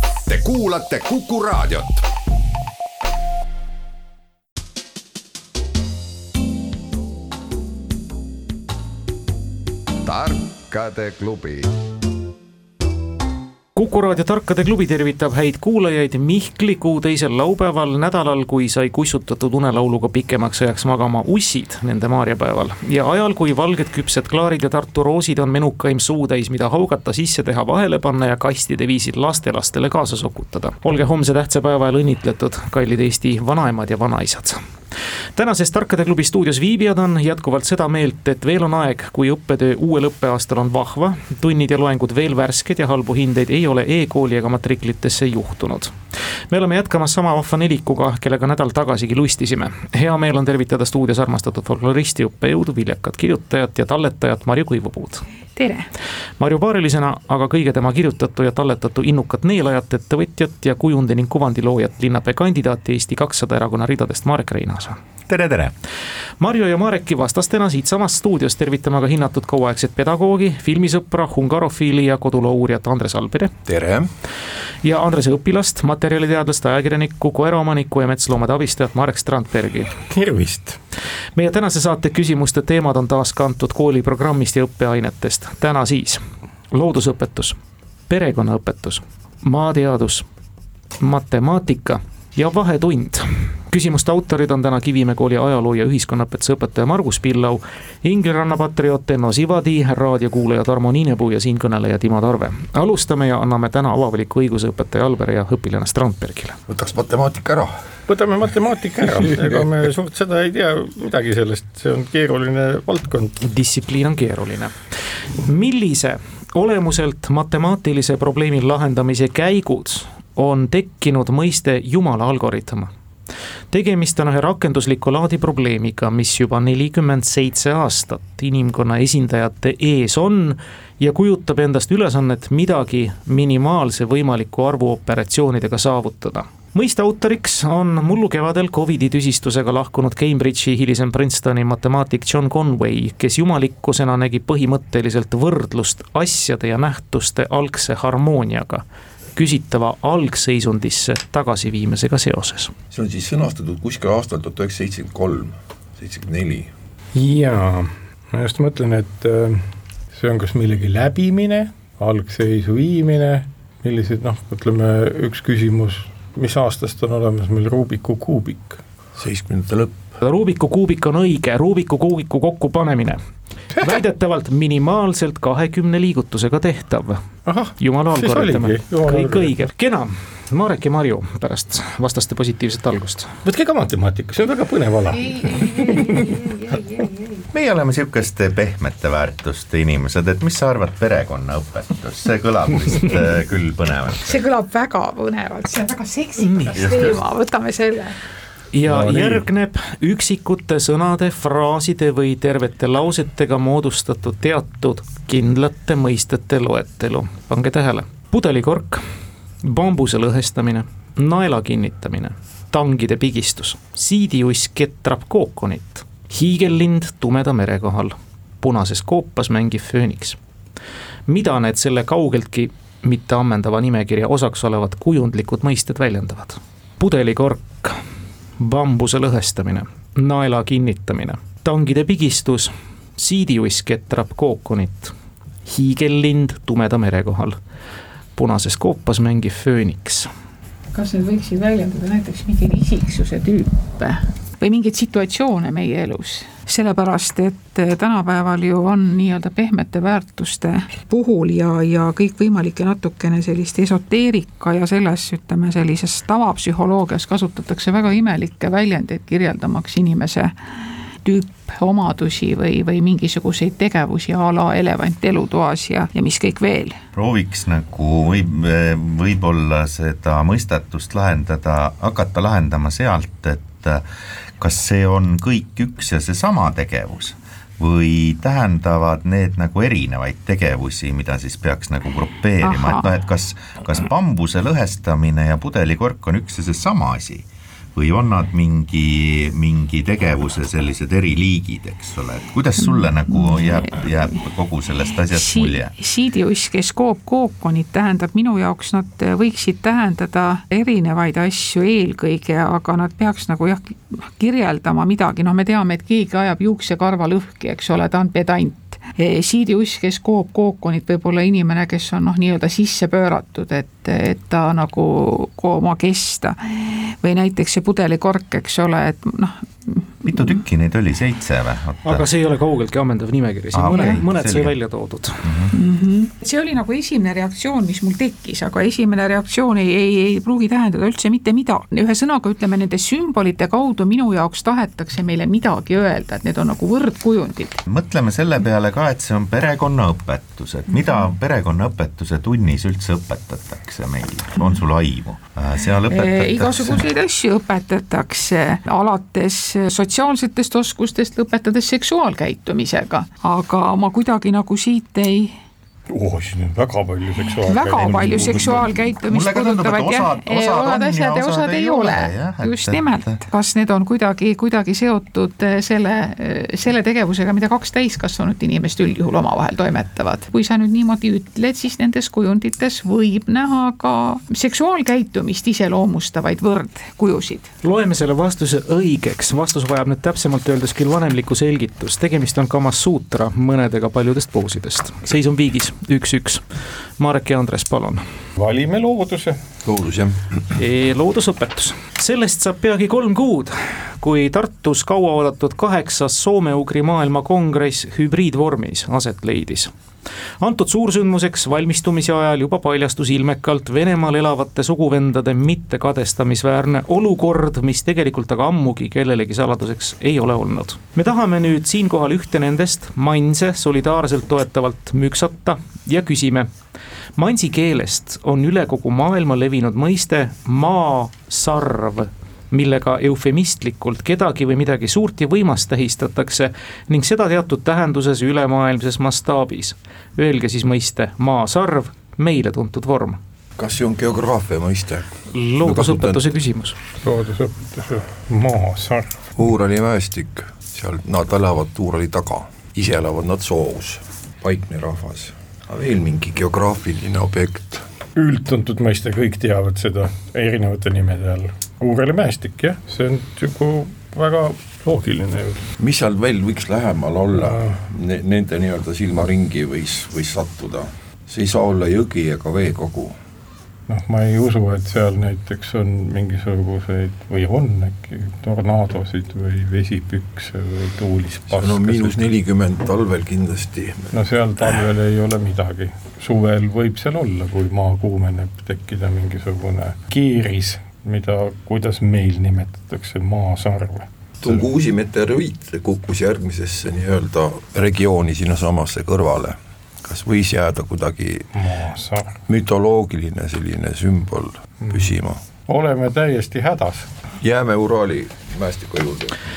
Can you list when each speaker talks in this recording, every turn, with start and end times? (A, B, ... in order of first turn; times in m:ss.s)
0:00.3-0:02.0 A
0:10.0-0:11.7 A
0:13.8-0:34.6 B
0:35.4-0:46.0 B
0:46.5-0:55.2 B
0:55.6-0:55.9 C
0:56.4-1:05.0 B
1:05.3-1:05.8 D
1:06.4-1:13.5 B
1:13.7-1:14.1 E
1:14.8-1:20.0 B
1:20.0-1:20.8 F
1:21.4-1:27.6 B
1:28.1-1:30.3 B
1:31.0-1:46.6 B
1:46.7-1:47.7 E
1:48.1-1:53.4 F
1:53.4-1:54.8 B
1:55.4-2:02.9 B
2:03.7-2:28.8 B
2:29.4-2:32.7 B
2:32.9-2:36.7 E
2:37.2-2:48.8 F
2:49.2-2:50.0 E
2:50.2-2:53.2 B
2:53.8-3:03.4 B
2:57.5-2:59.6 F
3:03.4-3:06.4 F
3:05.2-3:07.2 C
3:07.5-3:14.4 D
3:14.2-3:18.2 C
3:16.4-3:17.0 B
3:16.8-3:17.1 D
3:18.7-3:29.0 B
3:18.8-3:19.4 F
3:29.6-3:40.4 B
3:41.3-3:48.0 B
3:48.6-3:55.1 B
3:55.7-3:57.6 B
3:58.4-4:00.3 B
4:00.9-4:20.5 C
4:21.2-4:27.0 C
4:27.1-4:34.0 D
4:34.6-4:55.9 D
4:42.6-4:43.1 C
4:52.8-4:54.4 C
4:55.3-5:20.5 C
5:20.2-5:22.3 D
5:22.0-5:25.5 B
5:23.7-5:24.7 D
5:23.9-5:24.2 C
5:25.4-5:25.7 D
5:25.7-5:37.8 C
5:37.9-5:47.0 D
5:46.1-5:55.5 C
5:56.1-5:58.9 F
5:57.6-6:17.7 C
5:59.3-6:03.4 D
6:17.8-6:26.6 B
6:27.2-6:28.2 B
6:28.6-6:29.6 F
6:29.8-6:30.5 E
6:30.8-6:39.9 B
6:40.6-6:56.7 B
6:57.4-7:13.4 B
7:13.8-7:16.4 E
7:15.5-7:17.0 B
7:17.2-7:19.3 F
7:19.6-7:28.0 E
7:28.4-7:35.9 F
7:36.0-7:43.4 E
7:37.6-7:38.0 F
7:44.1-7:52.5 F
7:51.7-7:54.3 E
7:54.3-8:04.9 F
8:04.6-8:11.7 E
8:11.7-8:12.6 F
8:12.7-8:15.6 E
8:15.0-8:15.3 F
8:15.9-8:17.3 F
8:17.6-8:19.6 E